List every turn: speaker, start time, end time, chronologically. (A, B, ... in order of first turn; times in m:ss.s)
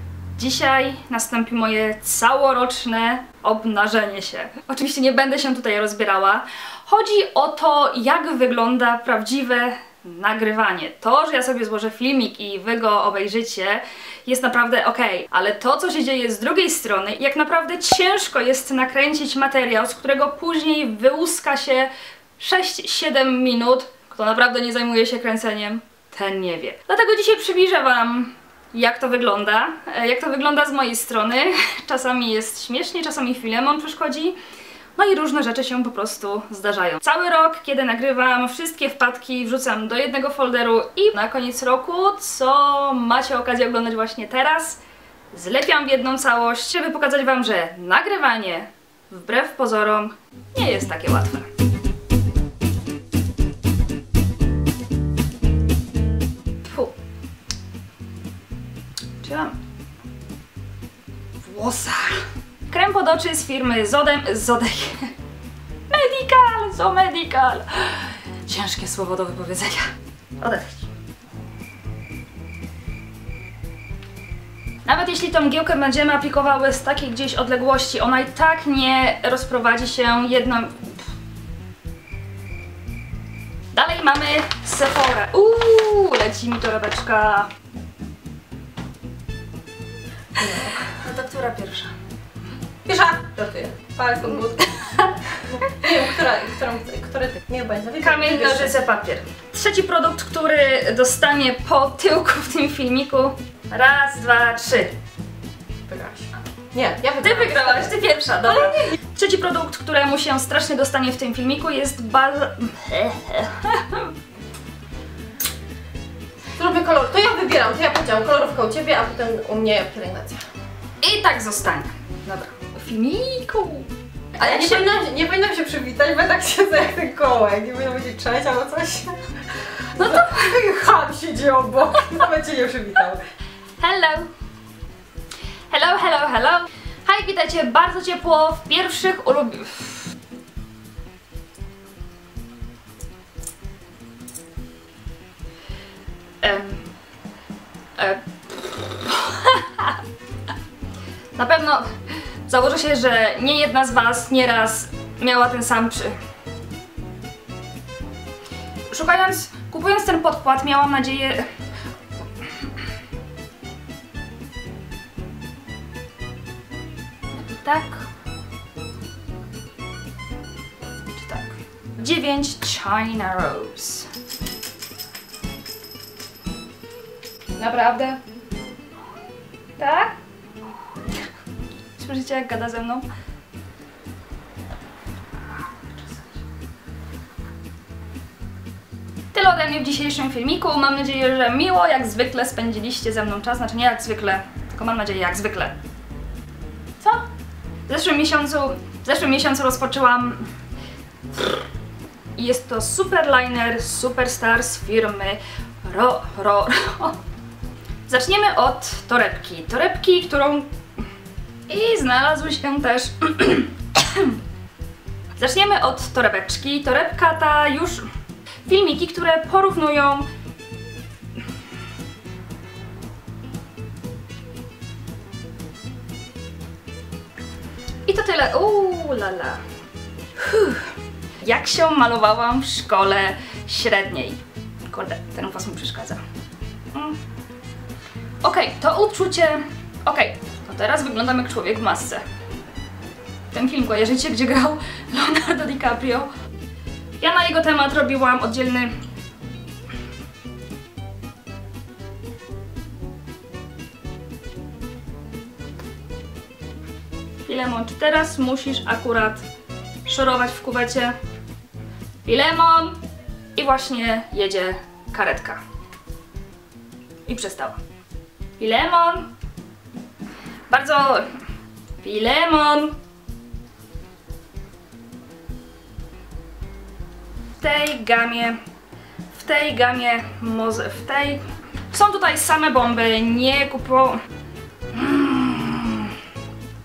0:00.4-0:34.4 A
0:35.0-0:44.8 A
0:45.3-0:51.5 A
0:56.6-0:56.9 A
0:59.2-0:59.6 A
1:01.4-1:05.1 A
1:05.9-1:09.9 A
1:10.4-1:10.9 A
1:14.8-1:21.0 A
1:23.7-1:27.5 A
1:30.4-1:30.9 B
1:30.9-1:31.9 A
1:32.8-1:34.7 B
1:34.8-1:35.1 A
1:35.4-1:38.8 B
1:38.0-1:45.0 A
1:45.9-1:48.8 B
1:47.2-1:54.1 A
1:56.6-2:00.5 B
2:01.0-2:05.0 A
2:04.4-2:13.2 B
2:10.0-2:10.5 A
2:13.8-2:14.3 A
2:15.7-2:20.1 A
2:26.4-2:26.8 A
2:28.0-2:30.0 A
2:31.4-2:32.0 A
2:32.5-2:36.2 A
2:38.9-2:41.5 A
2:47.3-2:48.1 A
2:51.1-2:54.1 A
2:57.6-2:58.2 A
2:59.8-3:00.2 A
3:02.0-3:03.1 A
3:05.6-3:06.2 A
3:09.3-3:15.8 A
3:17.0-3:17.3 A
3:17.9-3:20.5 A
3:22.4-3:27.2 A
3:28.1-3:30.7 A
3:31.7-3:34.4 A
3:35.4-3:38.0 A
3:38.7-3:40.3 A
3:48.1-3:49.6 A
3:50.4-3:50.9 A
3:51.4-3:56.2 A
3:56.9-3:57.2 A
3:58.4-4:02.2 A
4:03.5-4:06.3 A
4:07.2-4:08.9 A
4:17.5-4:19.4 A
4:20.0-4:21.2 A
4:22.2-4:23.0 A
4:23.6-4:25.6 A
4:27.3-4:27.8 A
4:28.6-4:29.3 A
4:30.7-4:31.3 A
4:32.0-4:33.0 A
4:37.6-4:38.6 A
4:39.3-4:44.2 A
4:44.9-4:46.1 A